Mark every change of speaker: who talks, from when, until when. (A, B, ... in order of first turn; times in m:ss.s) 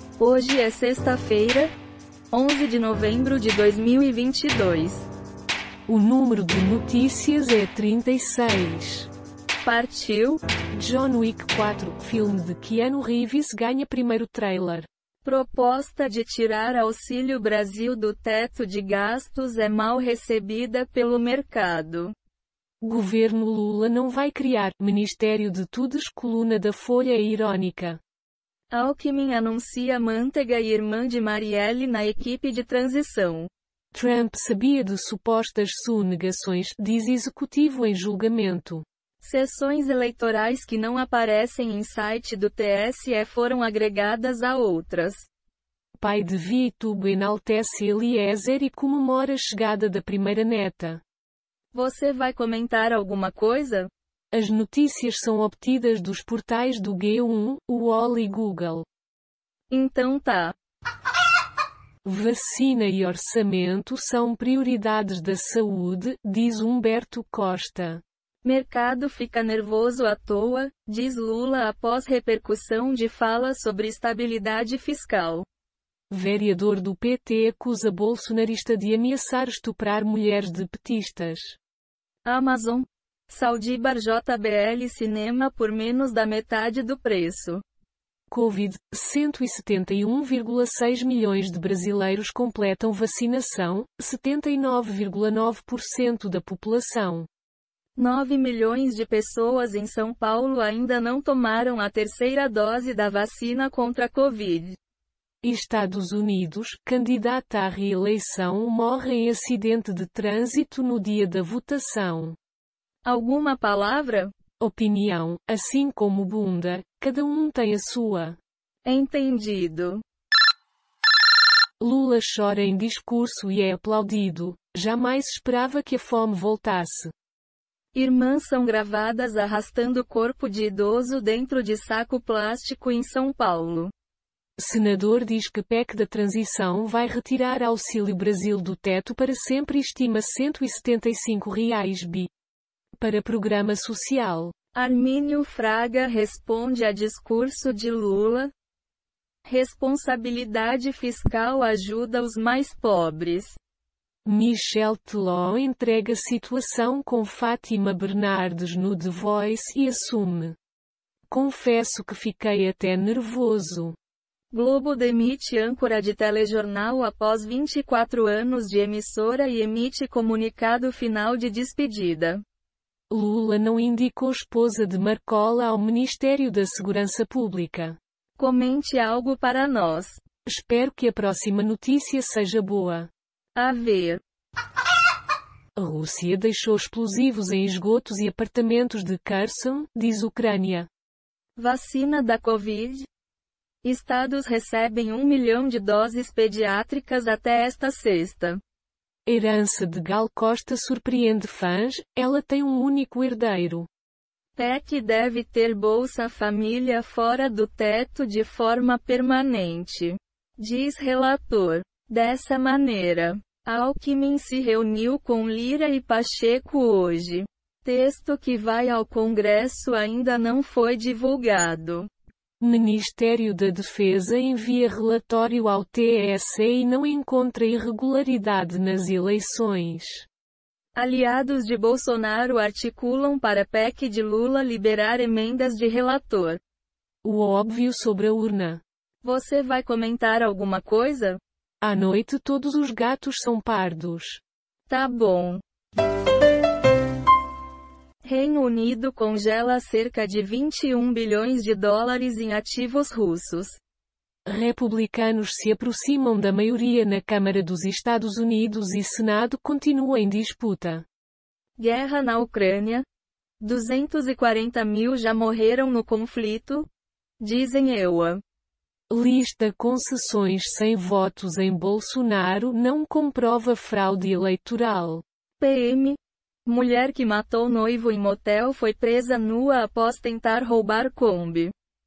0:00.2-0:01.7 A
0:02.3-0:05.1 A
0:05.9-0:09.1 B
0:09.6-0:10.4 A
0:10.7-0:14.9 B
0:15.2-0:22.1 A
0:22.8-0:28.0 B
0:28.7-0:33.5 A
0:33.9-0:38.8 B
0:39.2-0:45.3 A
0:46.0-0:51.0 B
0:51.7-0:53.9 A
0:54.3-0:58.8 B
0:59.7-1:00.5 A
1:02.0-1:08.0 B
1:08.4-1:15.5 A
1:16.1-1:21.6 B
1:22.2-1:27.6 A
1:28.3-1:37.3 B
1:38.0-1:44.8 A
1:45.4-1:52.4 B
1:53.0-1:54.3 A
1:54.6-1:58.4 B
1:58.8-2:00.0 A
2:01.8-2:07.1 B
2:08.0-2:13.9 A
2:14.6-2:22.3 B
2:23.0-2:24.5 B
2:24.8-2:28.5 A
2:29.5-2:33.6 A
2:34.2-2:40.6 B
2:41.3-2:44.0 B
2:44.5-2:52.4 A
2:53.1-2:58.0 B
2:58.4-3:00.2 A
3:00.5-3:03.1 B
3:03.6-3:04.2 A
3:05.8-3:10.9 B
3:11.6-3:13.1 A
3:13.8-3:18.6 A
3:19.3-3:23.9 B
3:24.6-3:42.1 A
3:42.6-3:50.3 B
3:51.0-3:56.6 A
3:57.2-3:58.8 B
3:59.2-4:01.4 A
4:01.8-4:04.4 B
4:04.9-4:05.6 A
4:08.2-4:13.8 A
4:14.5-4:21.1 B
4:21.8-4:23.0 A
4:23.6-4:26.9 A
4:27.4-4:28.4 A
4:29.1-4:35.2 B
4:35.6-4:41.7 A